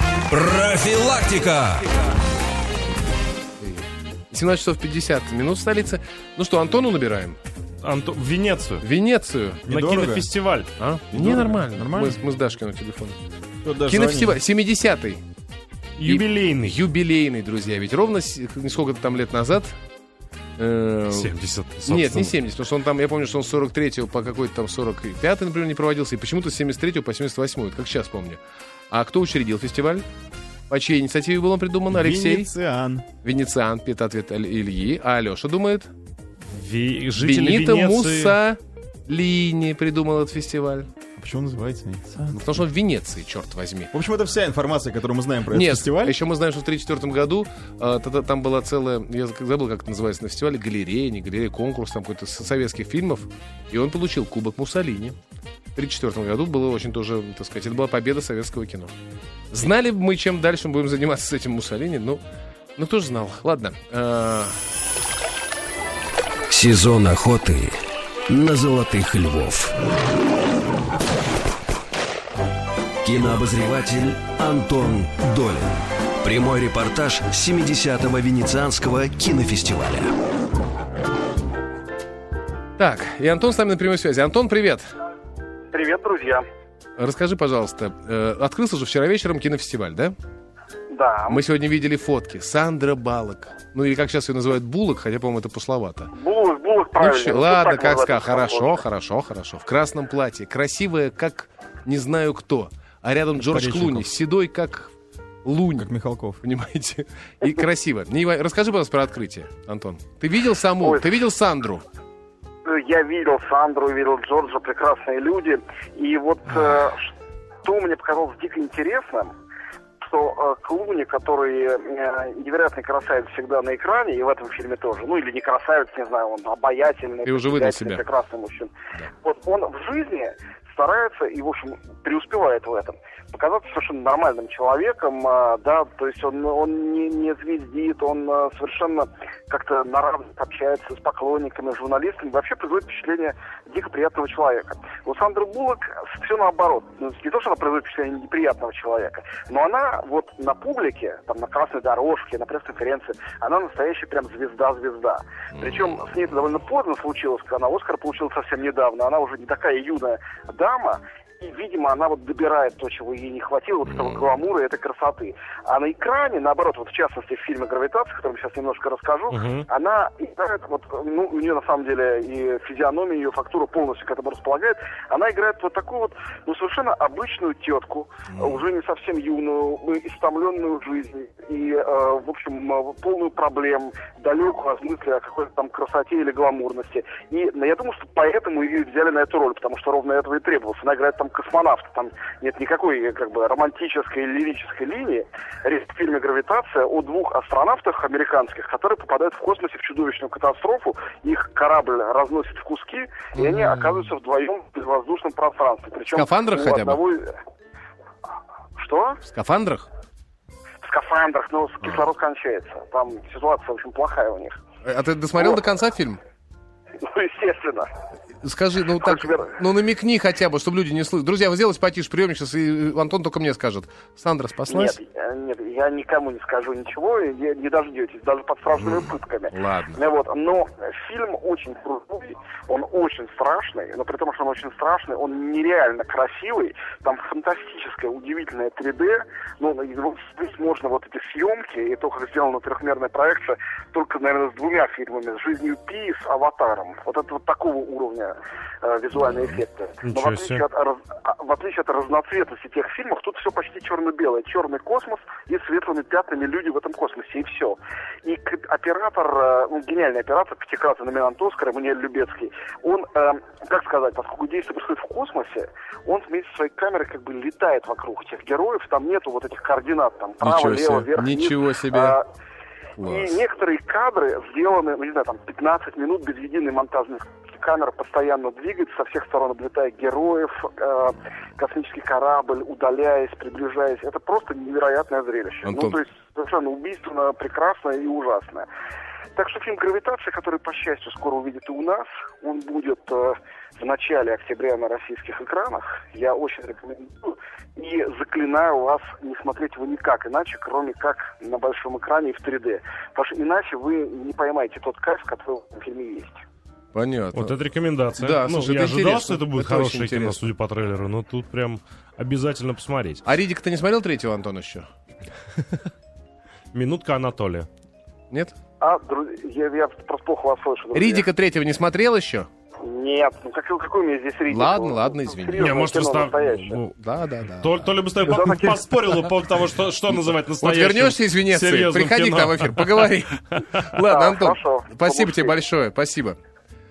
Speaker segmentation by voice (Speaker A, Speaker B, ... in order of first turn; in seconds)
Speaker A: 0.3-1.9, 66.5-67.8, 68.3-69.7, 73.0-80.1
Speaker B: 3.6-7.4, 8.8-9.7, 10.8-13.2, 13.9-15.2, 16.0-19.8, 20.6-21.3, 21.9-28.4, 28.9-30.0, 30.7-32.5, 33.2-35.9, 37.2-40.9, 42.4-43.9, 45.5-55.2, 55.8-58.9, 59.5-62.2, 62.8-64.5, 82.8-84.8, 87.0-90.2, 91.3-96.1, 97.0-104.9, 105.5-105.9, 106.4-111.8, 127.2-128.0, 155.6-155.9, 178.3-178.6, 203.3-204.1, 206.1-207.0, 209.3-209.9, 211.8-212.1, 214.8-216.2, 218.4-225.0, 228.7-230.1, 270.4-272.2, 273.0-273.3, 285.6-286.0, 306.9-307.6, 308.2-310.4, 313.2-314.9, 320.9-322.5, 324.5-325.8, 327.0-328.5, 330.6-336.4
Speaker C: 7.8-8.8, 9.7-10.7, 16.0-16.8, 21.1-22.3, 36.5-38.4, 103.5-104.0, 169.3-169.7, 250.0-250.6, 307.3-313.2, 316.7-317.7, 325.6-327.0, 327.6-333.9
Speaker D: 9.7-10.3, 11.1-12.2, 13.6-14.4, 31.9-33.1, 41.2-42.5, 43.9-46.2, 105.8-106.4
Speaker E: 85.7-86.4, 90.9-91.4, 96.1-98.8, 110.8-111.1, 112.7-117.1, 117.6-119.3, 120.0-207.4, 208.8-209.2, 210.8-214.6, 217.0-217.9, 219.0-219.6, 224.7-272.2, 273.0-288.7, 289.4-306.4, 318.8-321.3, 322.8-326.8, 328.3-328.8, 334.1-335.6